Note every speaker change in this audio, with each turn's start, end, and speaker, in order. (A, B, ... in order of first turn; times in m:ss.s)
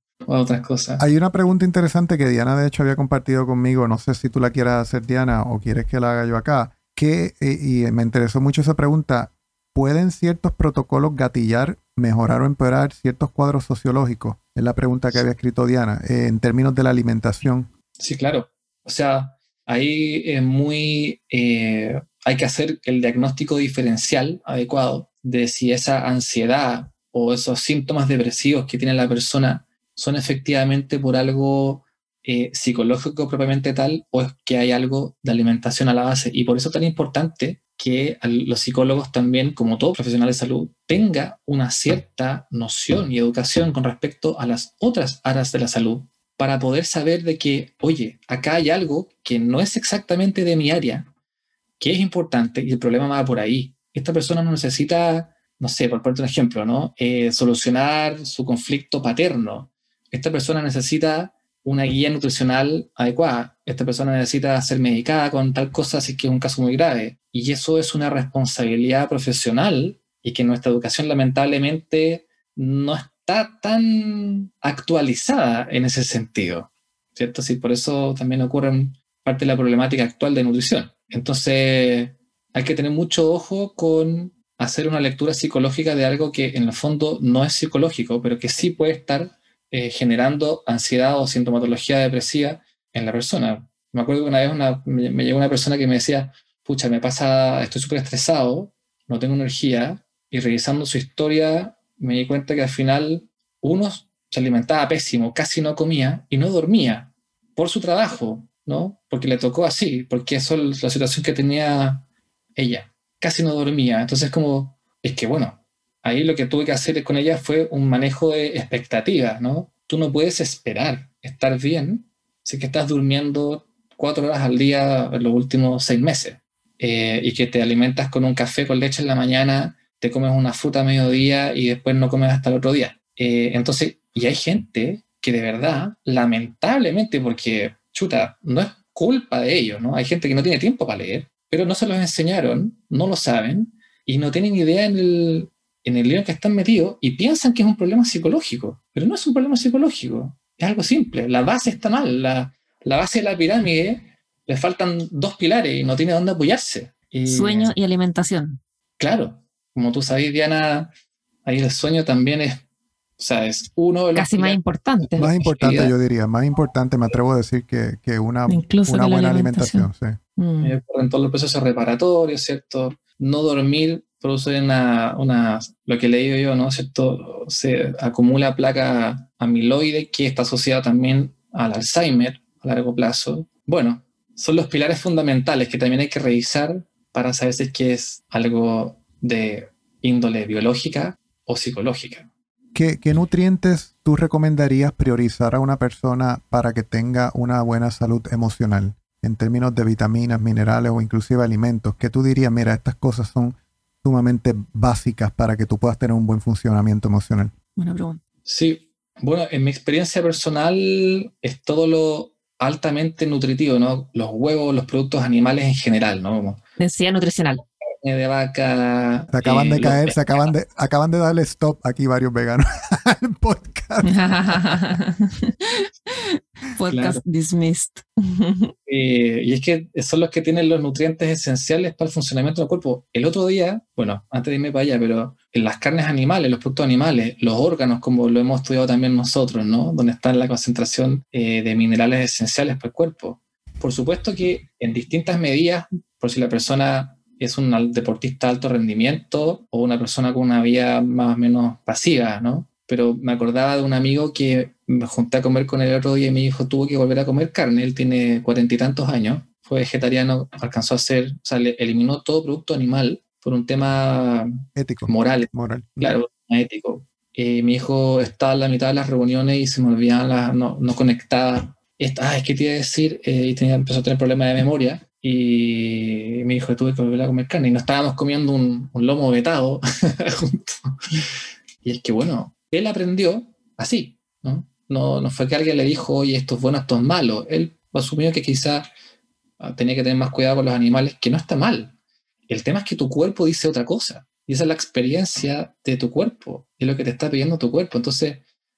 0:00.3-0:01.0 A
0:01.0-0:17.7 B
0:18.0-0:51.1 A
0:51.8-2:37.7 A
2:37.3-2:38.6 C
2:39.0-2:40.9 A
2:41.4-2:42.6 A
2:43.2-2:45.9 A
2:44.2-2:45.3 C
2:45.2-2:50.2 B
2:48.5-2:50.8 C
2:50.6-3:12.3 A
3:12.7-3:27.5 B
3:27.8-3:28.2 C
3:28.5-3:36.6 A
3:36.8-3:37.6 C
3:38.0-3:40.5 A
3:39.3-3:44.8 B
3:44.0-3:48.7 C
3:46.9-3:47.2 A
3:48.9-4:41.0 A
4:24.8-4:25.9 B
4:41.8-4:48.9 A
4:49.6-4:51.9 A
4:52.5-4:58.4 A